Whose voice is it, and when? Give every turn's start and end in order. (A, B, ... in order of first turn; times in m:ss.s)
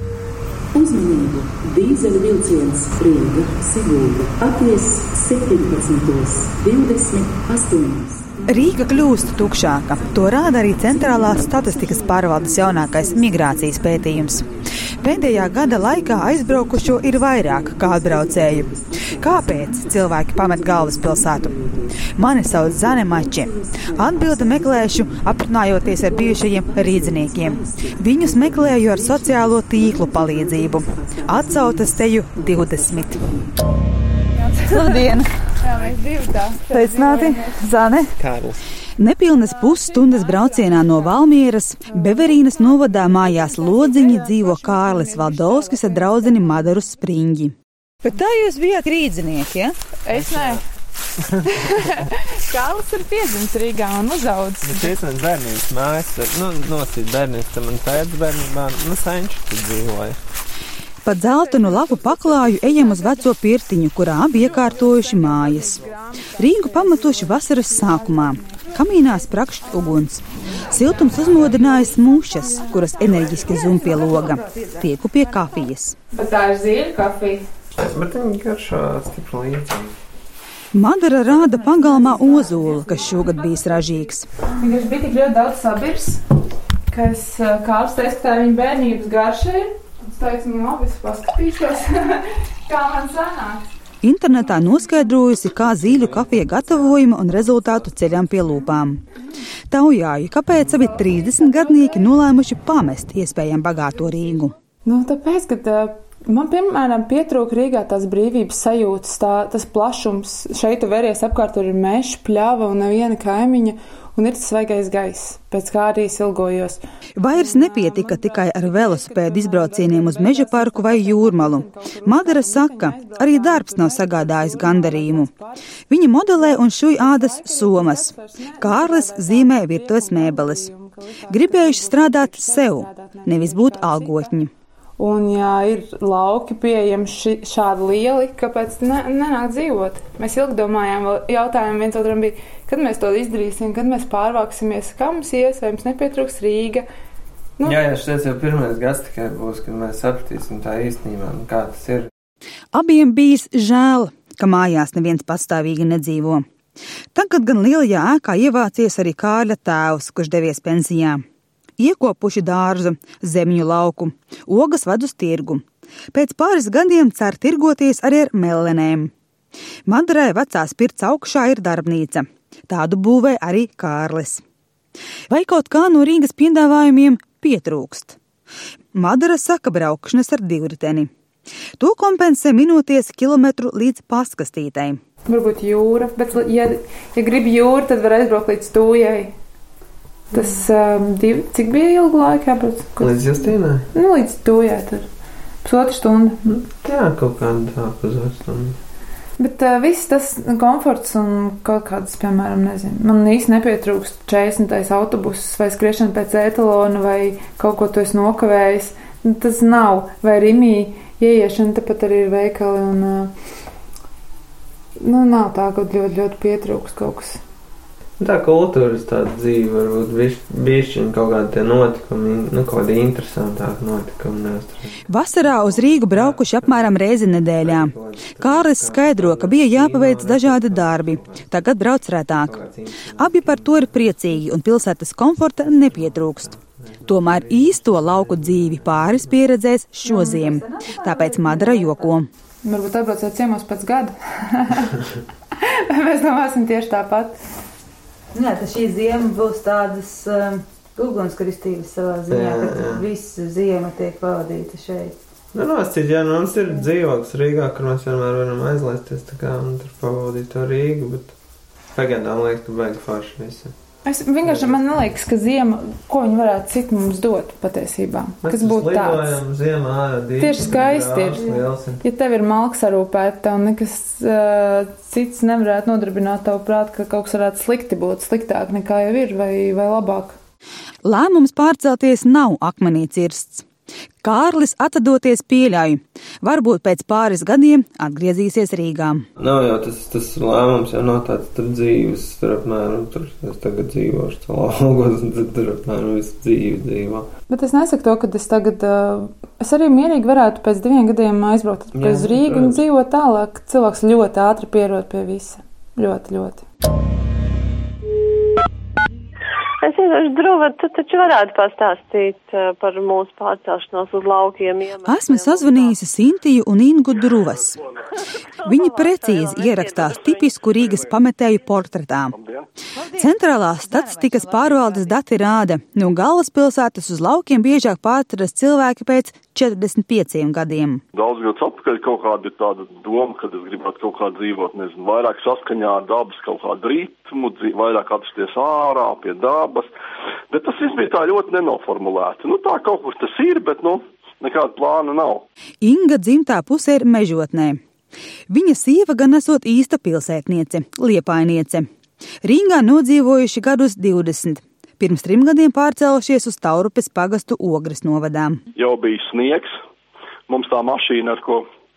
0:00.8-0:33.5 A
0:08.5-0:14.4 B
0:15.0-0:21.5 B
0:22.1-0:33.2 B
0:34.7-0:35.3 B
0:35.6-0:37.7 C
0:36.7-0:38.1 B
0:38.2-0:38.6 D
0:39.0-0:49.7 B
0:39.6-0:41.0 C
0:41.9-0:46.6 C
0:50.0-0:50.6 C
0:50.1-0:50.6 D
0:51.2-0:51.6 D
0:51.4-0:54.9 C
0:54.6-1:00.2 D
1:01.0-1:05.8 B
1:01.1-1:03.2 C
1:04.4-1:04.8 D
1:04.7-1:08.6 C
1:06.4-1:16.0 B
1:11.8-1:14.7 C
1:16.1-1:17.4 C
1:17.8-1:20.0 D
1:20.7-1:24.3 B
1:24.6-1:26.2 C
1:26.9-1:33.6 C
1:34.0-1:39.0 B
1:35.9-1:36.9 D
1:39.7-1:44.5 B
1:44.8-1:56.8 C
1:57.2-2:05.3 B
1:57.3-2:05.6 C
2:05.9-2:10.7 B
2:06.4-2:14.3 C
2:11.3-2:14.5 B
2:15.0-2:26.8 C
2:27.6-2:32.1 D
2:32.7-2:36.4 B
2:37.1-2:41.2 B
2:41.8-2:49.1 B
2:49.9-2:54.4 B
2:55.3-2:58.2 B
2:58.9-3:01.1 B
3:01.8-3:05.0 B
3:05.2-3:09.3 C
3:10.3-3:13.4 C
3:13.0-3:13.8 D
3:13.9-3:15.1 C
3:15.6-3:16.4 C
3:16.4-3:18.8 D
3:19.4-3:33.3 C
3:35.0-3:37.4 C
3:38.2-3:47.0 D
3:45.1-3:52.5 B
3:47.6-3:51.4 D
3:52.3-3:54.2 D
3:53.2-3:56.5 B
3:55.6-3:59.4 D
3:57.1-4:02.3 B
4:00.1-4:00.4 C
4:02.6-4:04.9 C
4:05.6-4:07.4 C
4:08.3-4:15.1 B
4:12.3-4:13.1 D
4:15.5-4:21.3 D
4:21.9-4:23.7 D
4:24.0-4:29.4 C
4:24.4-4:24.8 D
4:28.4-4:32.0 D
4:30.4-4:40.4 C
4:41.0-4:43.6 B
4:44.2-4:49.2 B
4:49.4-4:57.3 D
4:57.5-5:06.6 C
5:01.9-5:02.8 D
5:09.8-5:16.0 E
5:15.0-5:17.8 B
5:18.6-5:20.8 E
5:18.7-5:22.3 B
5:22.3-5:22.7 F
5:23.2-5:31.0 B
5:23.8-5:25.1 A
5:31.1-5:39.9 F
5:40.5-5:45.4 F
5:45.8-5:47.8 B
5:48.5-5:51.9 B
5:52.4-5:58.6 B
5:58.8-5:59.7 F
6:00.5-6:01.6 F